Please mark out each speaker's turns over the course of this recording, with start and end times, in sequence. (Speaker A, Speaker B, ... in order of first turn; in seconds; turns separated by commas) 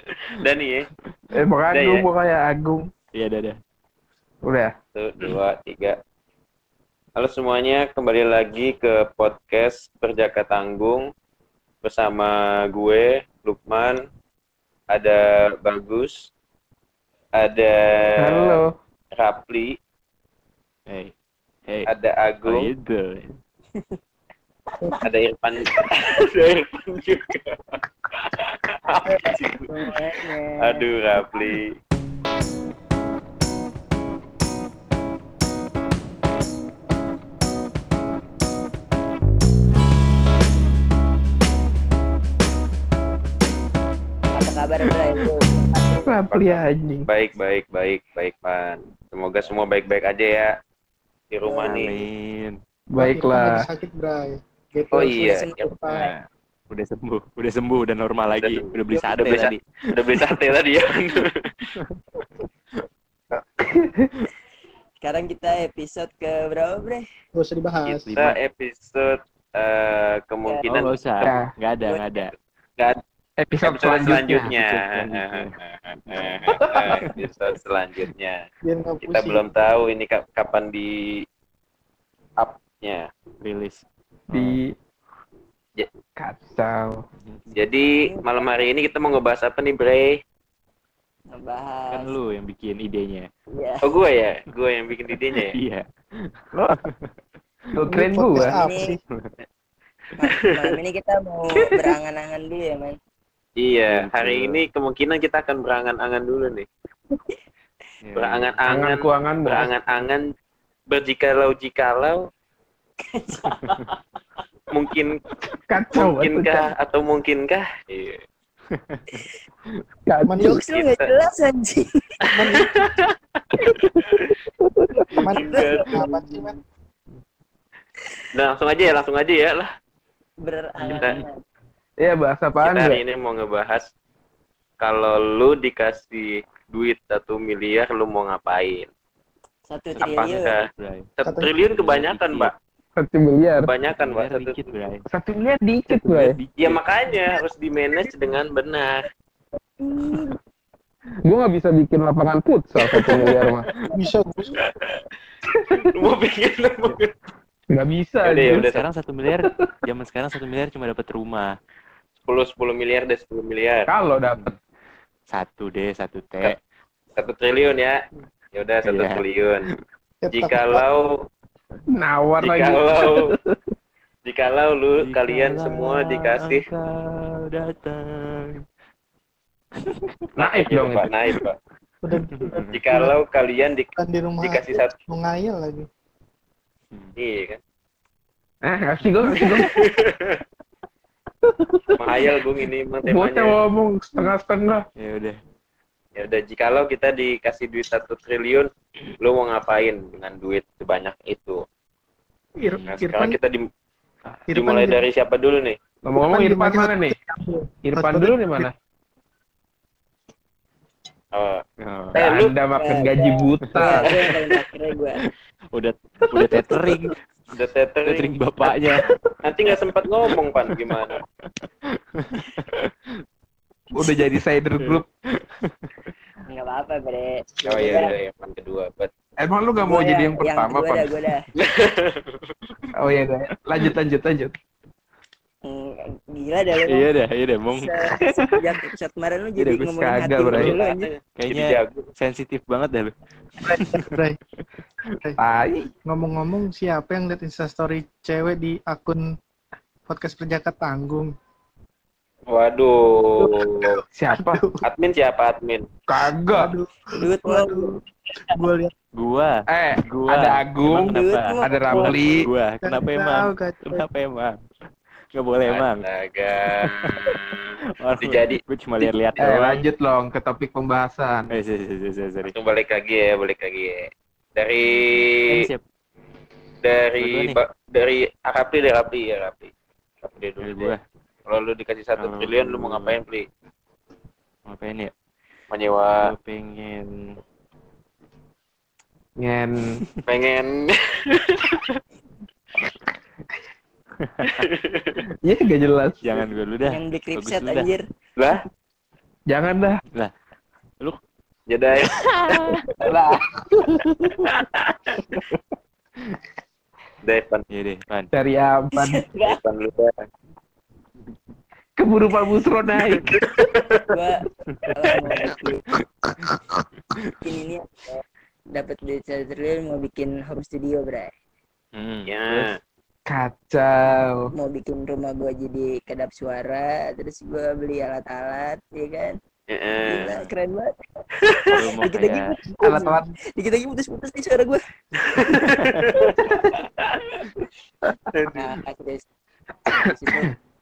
Speaker A: 0.4-0.9, Speaker B: 1.3-2.8, Speaker A: 1.7-2.0, Speaker C: 3.1-3.6, Speaker B: 4.4-4.7, Speaker A: 4.9-6.0, Speaker A: 7.2-11.1, Speaker A: 11.8-14.0, Speaker A: 14.9-16.3, Speaker A: 17.3-18.6, Speaker B: 18.2-18.7, Speaker A: 19.1-19.8, Speaker A: 21.9-22.7, Speaker C: 22.4-23.4, Speaker A: 25.0-29.8, Speaker D: 29.0-31.6, Speaker A: 30.6-31.8, Speaker D: 44.3-46.2, Speaker B: 46.0-47.1, Speaker A: 47.1-50.5, Speaker A: 51.3-52.0, Speaker D: 51.4-51.9, Speaker C: 51.6-52.6, Speaker B: 52.9-53.6, Speaker E: 53.0-56.1, Speaker A: 54.9-55.7, Speaker D: 55.0-55.9, Speaker C: 55.9-60.4, Speaker A: 58.4-61.3, Speaker C: 61.8-62.2, Speaker B: 63.3-64.3, Speaker D: 65.0-67.0, Speaker E: 67.3-68.0, Speaker A: 67.8-71.4, Speaker C: 68.0-68.4, Speaker D: 70.4-70.8, Speaker C: 70.7-72.3, Speaker D: 71.8-72.3, Speaker B: 73.4-74.5, Speaker A: 73.6-78.5, Speaker C: 74.3-75.5, Speaker C: 76.1-76.4, Speaker C: 76.9-77.2, Speaker E: 78.6-79.4, Speaker A: 79.0-81.2, Speaker A: 82.4-83.1, Speaker C: 83.4-84.6, Speaker B: 84.3-84.7, Speaker B: 86.2-87.0, Speaker C: 87.2-87.6, Speaker A: 87.5-90.2, Speaker D: 91.3-92.1, Speaker C: 91.9-93.3, Speaker D: 93.5-93.9, Speaker A: 93.8-95.5, Speaker C: 95.3-97.1, Speaker B: 97.8-98.5, Speaker E: 97.9-99.0, Speaker D: 98.3-99.0, Speaker D: 100.2-103.0, Speaker A: 103.6-106.7, Speaker C: 103.9-104.7, Speaker C: 108.0-108.6, Speaker A: 108.2-110.2, Speaker B: 108.7-109.7, Speaker A: 110.9-112.3, Speaker D: 113.1-113.8, Speaker A: 114.7-115.2, Speaker B: 115.7-116.7, Speaker A: 115.9-118.2, Speaker C: 118.7-119.8, Speaker B: 120.1-120.6, Speaker E: 120.3-120.6, Speaker D: 120.4-121.9, Speaker A: 120.7-121.1, Speaker E: 122.3-122.6, Speaker A: 122.3-124.3, Speaker B: 124.1-125.1, Speaker A: 125.2-126.4, Speaker E: 125.2-126.5, Speaker D: 125.4-126.1, Speaker A: 128.3-129.7, Speaker D: 130.4-131.4, Speaker C: 130.8-131.2, Speaker A: 130.9-131.2, Speaker B: 132.0-133.0, Speaker A: 132.6-133.9, Speaker A: 134.8-138.9, Speaker D: 139.7-140.5, Speaker A: 140.0-142.5, Speaker C: 140.0-141.1, Speaker E: 141.2-141.5, Speaker C: 141.6-142.5, Speaker B: 143.0-143.7, Speaker A: 143.6-144.7, Speaker C: 144.0-145.0, Speaker B: 145.1-146.3, Speaker C: 145.9-146.8, Speaker A: 146.6-149.0, Speaker D: 149.8-150.4, Speaker B: 151.2-153.7, Speaker E: 153.9-154.6, Speaker A: 154.6-154.9, Speaker A: 155.6-157.1, Speaker B: 157.7-158.7, Speaker A: 158.2-158.8, Speaker C: 158.4-161.5, Speaker B: 159.3-159.7, Speaker A: 162.3-163.9, Speaker B: 163.9-164.4, Speaker C: 165.3-166.6, Speaker A: 167.2-168.0, Speaker A: 168.5-169.7, Speaker C: 168.8-169.7, Speaker E: 170.2-170.8, Speaker A: 170.3-171.2, Speaker B: 171.9-173.6, Speaker A: 172.4-173.3, Speaker A: 174.2-176.6, Speaker C: 175.0-178.6, Speaker C: 179.8-180.1, Speaker A: 180.4-181.6, Speaker B: 180.4-181.1, Speaker E: 182.0-183.1, Speaker C: 182.3-182.8, Speaker A: 182.7-184.9, Speaker E: 183.9-185.9, Speaker A: 187.2-187.6, Speaker B: 188.6-189.7, Speaker A: 189.6-190.3, Speaker B: 191.6-192.0, Speaker A: 192.0-193.6, Speaker B: 193.0-194.8, Speaker C: 195.0-195.4, Speaker A: 196.2-201.6, Speaker E: 202.6-203.4, Speaker A: 202.9-203.7, Speaker E: 204.5-205.0, Speaker A: 204.5-205.8, Speaker B: 206.0-207.1, Speaker E: 206.2-208.6, Speaker B: 207.8-208.7, Speaker A: 211.3-211.6, Speaker C: 211.8-212.2, Speaker B: 212.1-214.1, Speaker A: 212.2-212.5, Speaker D: 212.8-215.2, Speaker C: 215.7-217.2, Speaker E: 216.3-216.9, Speaker A: 217.5-218.9, Speaker C: 218.0-219.1, Speaker A: 219.4-221.2, Speaker C: 219.7-223.2, Speaker B: 223.9-225.0, Speaker C: 224.8-226.1, Speaker D: 226.5-228.1, Speaker A: 227.6-229.1, Speaker B: 229.4-231.2, Speaker D: 229.8-231.4, Speaker A: 231.5-232.3, Speaker B: 232.9-234.5, Speaker D: 235.7-237.1, Speaker C: 236.9-237.9, Speaker D: 237.8-241.1, Speaker C: 239.6-239.9, Speaker B: 239.9-240.7, Speaker A: 240.5-242.1, Speaker C: 241.4-244.1, Speaker E: 243.6-244.4, Speaker B: 245.4-245.9, Speaker E: 246.1-249.2, Speaker E: 250.1-251.3, Speaker A: 252.5-253.9, Speaker E: 253.4-254.8, Speaker B: 254.1-254.6, Speaker A: 254.8-255.9, Speaker B: 256.1-256.7, Speaker E: 256.5-258.0, Speaker D: 257.2-257.9, Speaker E: 258.5-258.9, Speaker C: 259.1-264.5, Speaker B: 259.7-262.5, Speaker D: 260.9-262.1, Speaker E: 262.8-264.1, Speaker C: 265.3-266.0, Speaker A: 265.7-269.4, Speaker C: 266.6-269.8, Speaker B: 269.4-271.5, Speaker C: 271.5-272.5, Speaker A: 272.5-275.6, Speaker C: 274.9-275.8, Speaker A: 276.8-279.7, Speaker C: 277.2-277.6, Speaker A: 280.2-280.9, Speaker C: 280.6-281.0, Speaker A: 281.5-283.5, Speaker C: 282.2-283.2, Speaker C: 284.7-285.1, Speaker A: 285.7-286.3, Speaker C: 286.2-287.4, Speaker B: 289.4-290.0, Speaker A: 290.2-292.0, Speaker C: 294.2-294.7, Speaker A: 294.5-295.2, Speaker B: 295.4-296.4, Speaker C: 296.2-297.9, Speaker D: 296.9-298.0, Speaker A: 298.4-298.6, Speaker B: 299.5-300.0, Speaker A: 301.7-302.8, Speaker C: 302.0-302.8, Speaker B: 303.0-304.0, Speaker A: 304.4-305.4, Speaker A: 307.2-307.6, Speaker C: 307.7-308.3, Speaker B: 308.3-309.2, Speaker D: 309.0-309.6, Speaker A: 309.4-310.2, Speaker B: 312.0-313.2, Speaker A: 313.2-314.1, Speaker D: 314.1-315.8, Speaker D: 317.4-321.3, Speaker C: 321.9-322.8, Speaker A: 322.3-322.8, Speaker B: 323.3-324.5, Speaker D: 324.6-329.4, Speaker A: 329.7-330.4, Speaker D: 330.1-330.9, Speaker C: 330.1-330.4, Speaker A: 331.5-331.7, Speaker C: 331.8-332.5, Speaker D: 331.8-334.8, Speaker B: 332.8-333.3, Speaker A: 335.3-337.5, Speaker C: 335.6-336.2, Speaker A: 338.3-338.8, Speaker D: 338.5-339.2, Speaker B: 339.9-340.4, Speaker D: 340.0-340.5